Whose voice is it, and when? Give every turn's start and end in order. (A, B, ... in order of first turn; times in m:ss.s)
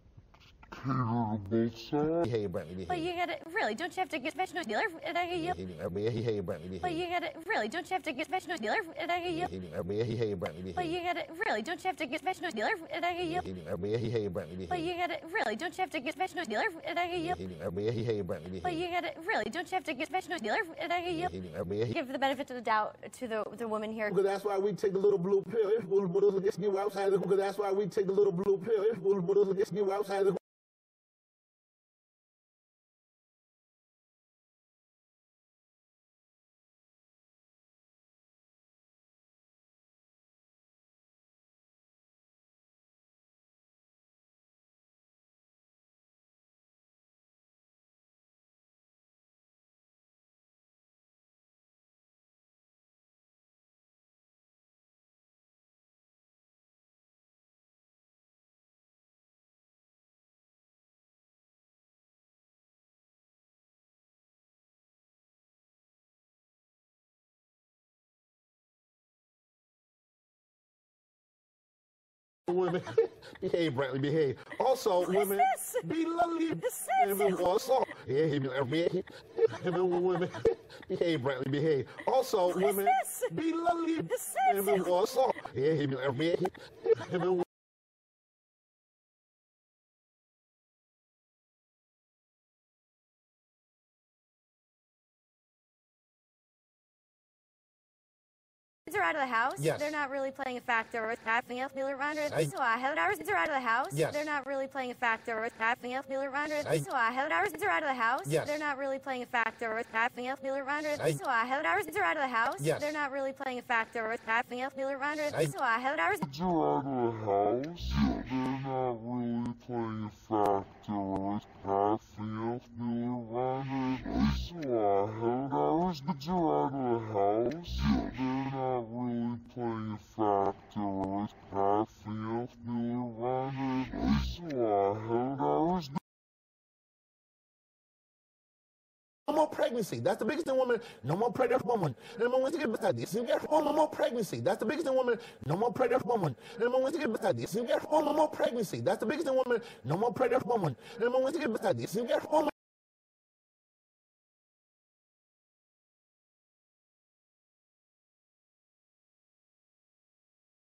0:00.7-0:02.2 A
0:02.2-0:03.1 B
0:02.9-0:05.6 C
0:05.3-0:07.0 B
0:06.8-0:09.5 C
0:09.3-0:11.0 B
0:10.7-0:13.4 C
0:13.2-0:14.9 B
0:14.7-0:17.4 C
0:17.2-0:18.8 B
0:18.6-0:21.3 C
0:21.1-0:21.9 B
0:21.9-0:24.1 C
0:24.1-0:30.4 B
1:12.5-1:27.4 B
1:15.0-1:15.9 C
1:16.5-1:17.5 C
1:22.4-1:23.3 C
1:24.0-1:25.0 C
1:38.8-1:56.3 C
1:39.6-1:39.8 B
1:43.9-1:44.2 B
1:48.2-1:48.5 B
1:52.6-1:52.8 B
1:56.3-2:16.0 A
2:19.3-2:32.5 B